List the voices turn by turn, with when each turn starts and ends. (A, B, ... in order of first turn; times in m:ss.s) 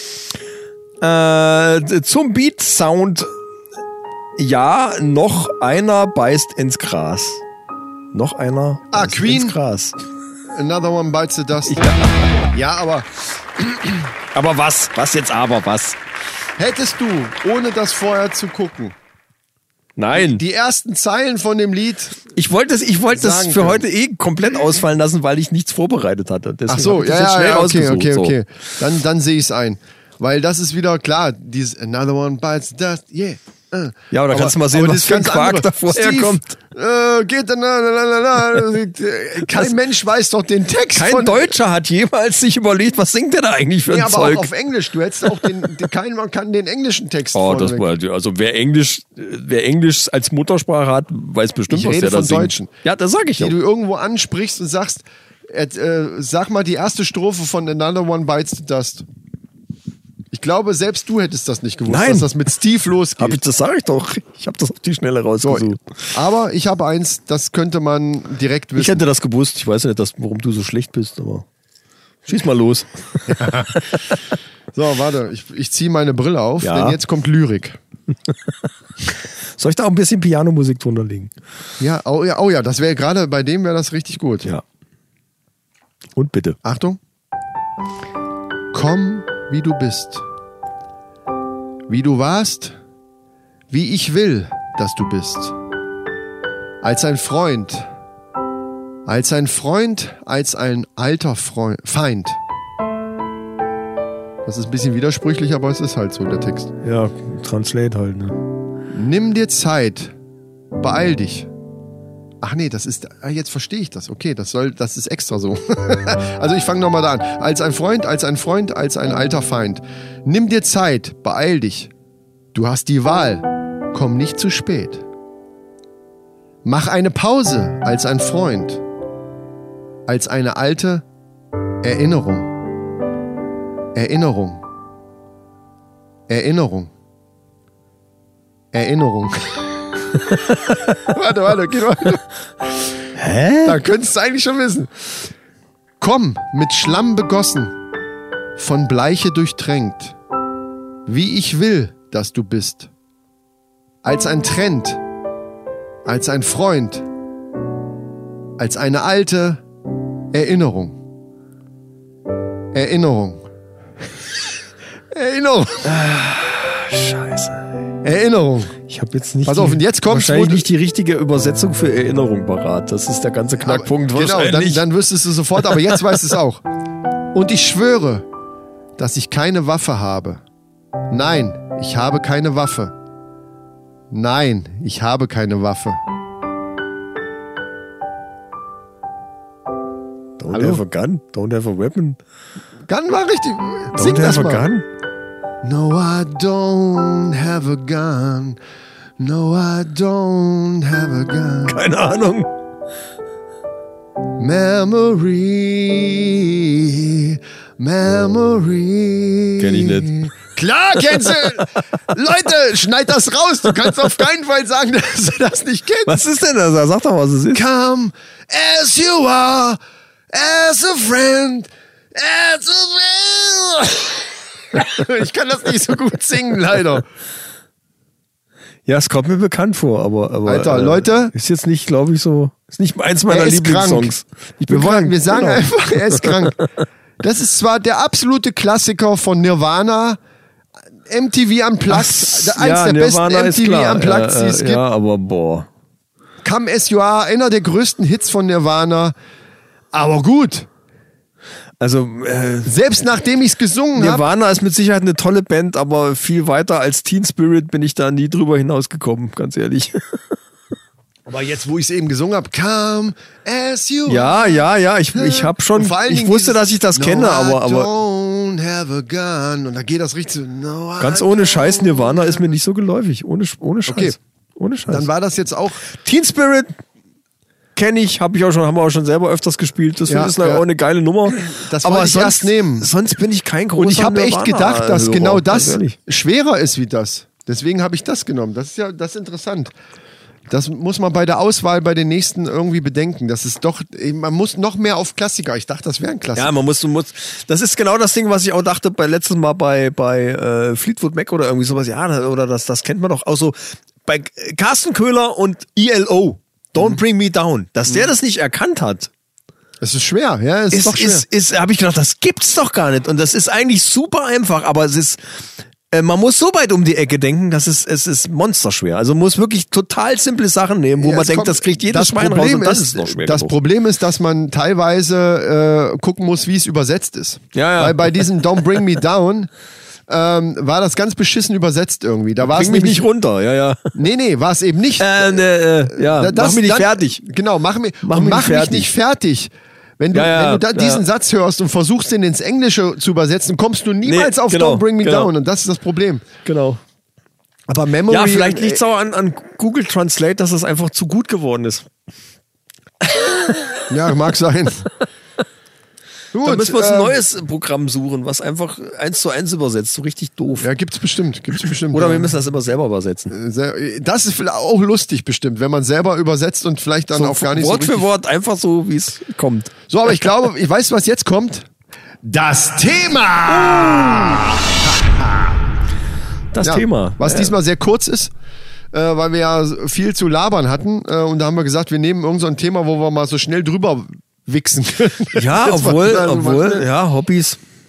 0:01.0-0:03.3 A
0:04.4-0:07.4 A
0:08.1-0:10.0 A
0:08.9-0:09.6 B
0:10.5-0:11.9 B
0:11.7-0:12.4 A
0:12.5-0:13.1 B
0:13.6-0:14.0 B
0:14.3-0:16.0 A
0:16.6-0:18.9 B
0:20.0-0:20.4 A
0:20.1-0:22.2 B
0:22.3-0:28.3 A
0:23.1-0:23.8 B
0:26.7-0:41.5 B
0:34.1-0:36.5 A
0:39.4-0:39.7 A
0:40.9-0:44.5 A
0:43.9-0:47.9 B
0:47.3-0:53.5 A
0:51.7-0:52.7 B
0:53.4-0:59.0 B
1:00.3-1:03.4 B
1:01.9-1:02.3 A
1:03.2-1:05.8 A
1:05.4-1:09.0 B
1:08.8-1:11.4 A
1:12.2-1:13.6 A
1:13.3-1:13.9 B
1:14.7-1:17.8 B
1:16.6-1:17.0 A
1:19.6-1:21.3 A
1:21.8-1:24.5 B
1:26.2-1:26.6 A
1:26.6-1:27.0 B
1:28.7-1:30.2 B
1:31.9-1:32.8 B
1:33.7-1:35.5 B
1:36.8-1:37.9 B
1:39.0-1:42.4 B
1:44.4-1:46.7 B
1:46.8-1:48.4 A
1:48.9-1:50.1 B
1:50.8-1:51.5 B
1:52.4-2:01.9 B
2:02.5-2:05.0 B
2:06.6-2:08.8 B
2:10.1-2:11.0 B
2:11.8-2:12.5 B
2:13.9-2:14.6 B
2:16.3-2:16.9 B
2:18.7-2:19.6 B
2:21.0-2:22.2 B
2:23.2-2:23.8 A
2:23.6-2:24.9 B
2:26.0-2:27.7 B
2:28.6-2:30.2 B
2:31.0-2:32.9 B
2:34.0-2:35.0 B
2:36.0-2:37.0 B
2:38.6-2:39.6 B
2:40.3-2:41.0 B
2:42.7-2:43.4 B
2:45.1-2:46.0 B
2:45.8-2:47.8 A
2:48.0-2:48.8 B
2:48.9-2:54.8 A
2:49.4-2:50.7 B
2:53.6-2:56.6 B
2:55.6-2:56.0 A
2:57.3-2:58.2 B
2:59.0-3:00.4 B
3:01.1-3:02.9 B
3:04.1-3:06.0 B
3:10.4-3:12.2 A
3:10.5-3:10.8 B
3:12.9-3:14.7 B
3:13.9-3:14.8 A
3:15.6-3:18.6 B
3:19.2-3:21.8 B
3:21.7-3:22.5 A
3:24.4-3:36.1 B
3:29.6-3:30.3 A
3:31.1-3:31.5 A
3:36.0-3:37.6 A
3:37.5-3:39.8 B
3:40.3-3:47.1 B
3:48.8-3:56.5 A
3:50.4-3:51.3 B
3:53.3-3:54.1 B
3:54.7-3:56.6 B
3:57.2-4:00.2 B
4:01.1-4:04.8 B
4:01.9-4:05.7 A
4:06.4-4:09.1 B
4:09.9-4:10.7 B
4:11.8-4:12.7 A
4:12.6-4:14.2 B
4:14.0-4:20.2 A
4:21.3-4:32.4 B
4:24.1-4:27.9 A
4:31.0-4:35.1 A
4:33.9-4:34.2 B
4:34.9-4:35.9 B
4:35.9-4:36.8 A
4:37.8-4:46.0 A
4:40.1-4:40.6 B
4:41.3-4:42.9 B
4:43.8-4:49.7 B
4:50.5-4:56.5 B
4:56.4-5:09.1 A
5:09.8-5:11.2 B
5:10.7-5:15.2 A
5:15.9-5:23.5 A
5:21.0-5:29.5 B
5:27.5-5:28.3 A
5:30.1-5:33.0 B
5:32.4-5:33.9 A
5:33.9-5:46.3 B
5:35.0-5:37.2 A
5:38.0-5:38.9 A
5:40.1-5:41.0 A
5:44.0-5:45.3 A
5:46.4-5:46.8 A
5:47.7-5:48.8 B
5:48.1-5:51.9 A
5:53.0-5:53.8 A
5:53.9-5:54.9 B
5:56.3-5:57.2 B
5:56.4-6:00.7 A
6:00.6-6:02.3 B
6:01.7-6:03.3 A
6:03.3-6:08.1 B
6:07.1-6:09.7 A
6:09.9-6:11.7 B
6:12.2-6:15.6 B
6:13.5-6:14.4 A
6:16.5-6:17.5 A
6:16.6-6:18.3 B
6:18.9-6:26.9 B
6:25.3-6:27.6 A